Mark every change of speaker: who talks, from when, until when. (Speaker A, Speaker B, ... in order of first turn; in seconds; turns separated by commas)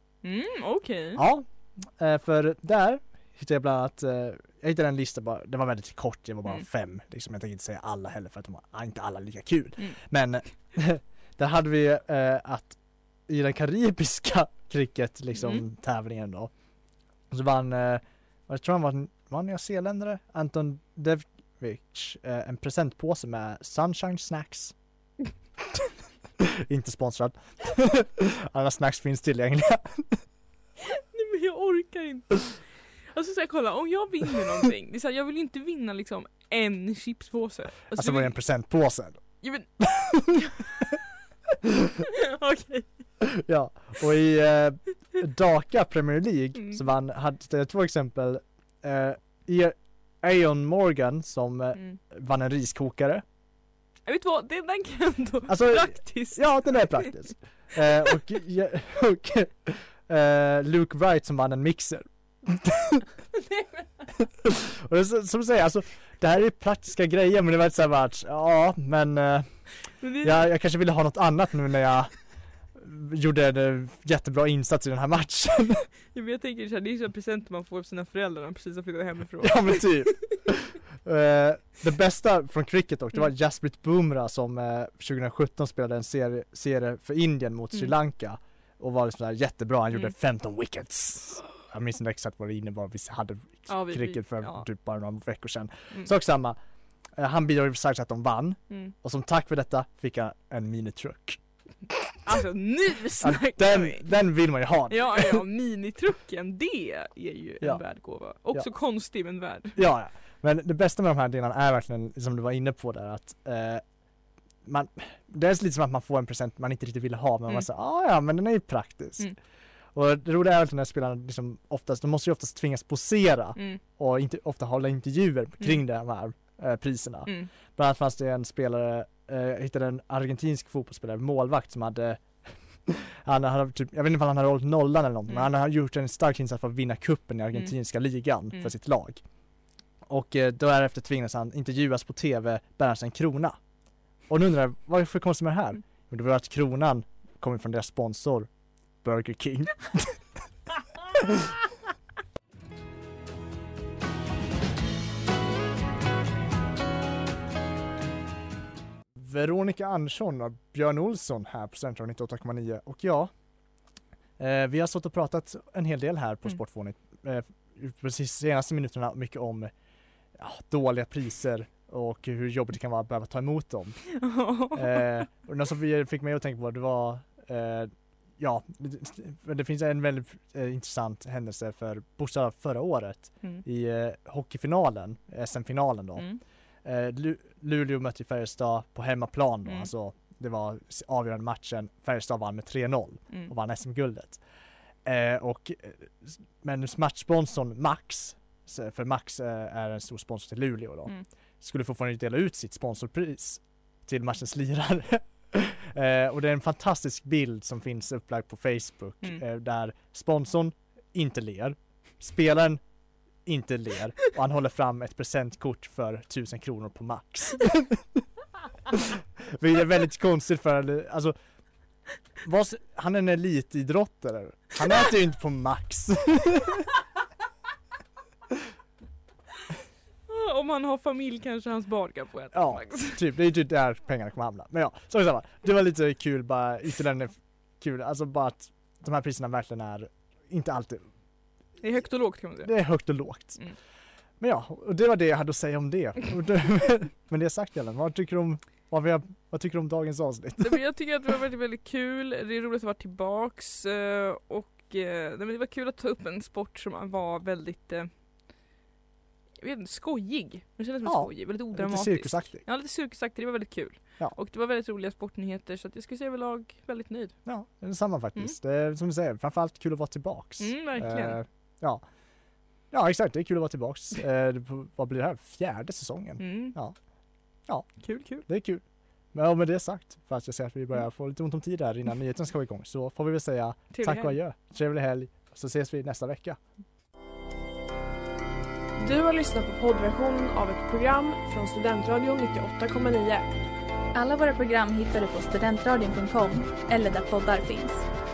Speaker A: 0.2-1.2, Speaker B: 1.2-16.5, Speaker A: 15.3-15.6, Speaker B: 17.3-24.8, Speaker B: 26.4-30.2, Speaker A: 30.9-38.4, Speaker B: 37.9-40.0, Speaker A: 39.4-40.5, Speaker A: 42.2-43.2, Speaker B: 43.3-53.2, Speaker A: 54.1-57.1, Speaker B: 55.5-63.0, Speaker A: 63.5-63.9, Speaker B: 64.5-69.7, Speaker A: 70.0-70.5, Speaker B: 70.2-72.2, Speaker B: 72.7-75.9, Speaker A: 76.1-80.1, Speaker B: 79.4-96.6, Speaker A: 93.7-94.7, Speaker B: 97.2-101.4, Speaker A: 102.2-104.1, Speaker B: 103.2-105.4, Speaker A: 104.9-109.8, Speaker B: 107.6-108.7, Speaker B: 109.8-113.8, Speaker B: 114.7-119.3, Speaker B: 119.9-139.2, Speaker B: 140.1-143.6, Speaker B: 144.3-148.5, Speaker B: 149.0-150.2, Speaker B: 159.2-163.3, Speaker B: 164.4-169.7, Speaker B: 170.3-174.1, Speaker A: 174.2-175.3, Speaker B: 174.7-186.3, Speaker A: 186.2-186.4, Speaker B: 186.8-194.4, Speaker B: 195.1-212.8, Speaker B: 213.4-218.2, Speaker B: 218.9-221.3, Speaker B: 222.4-226.9, Speaker A: 230.3-233.2, Speaker B: 232.5-241.1, Speaker A: 241.8-242.7, Speaker B: 242.6-243.6, Speaker B: 244.4-250.8, Speaker A: 250.6-258.1, Speaker A: 259.6-267.4, Speaker B: 261.0-262.6, Speaker B: 267.5-272.0, Speaker A: 270.6-271.4, Speaker B: 272.9-277.0, Speaker A: 276.4-276.8, Speaker B: 277.7-286.6, Speaker A: 278.0-278.5, Speaker A: 283.9-284.4, Speaker C: 289.0-293.5, Speaker D: 294.1-298.1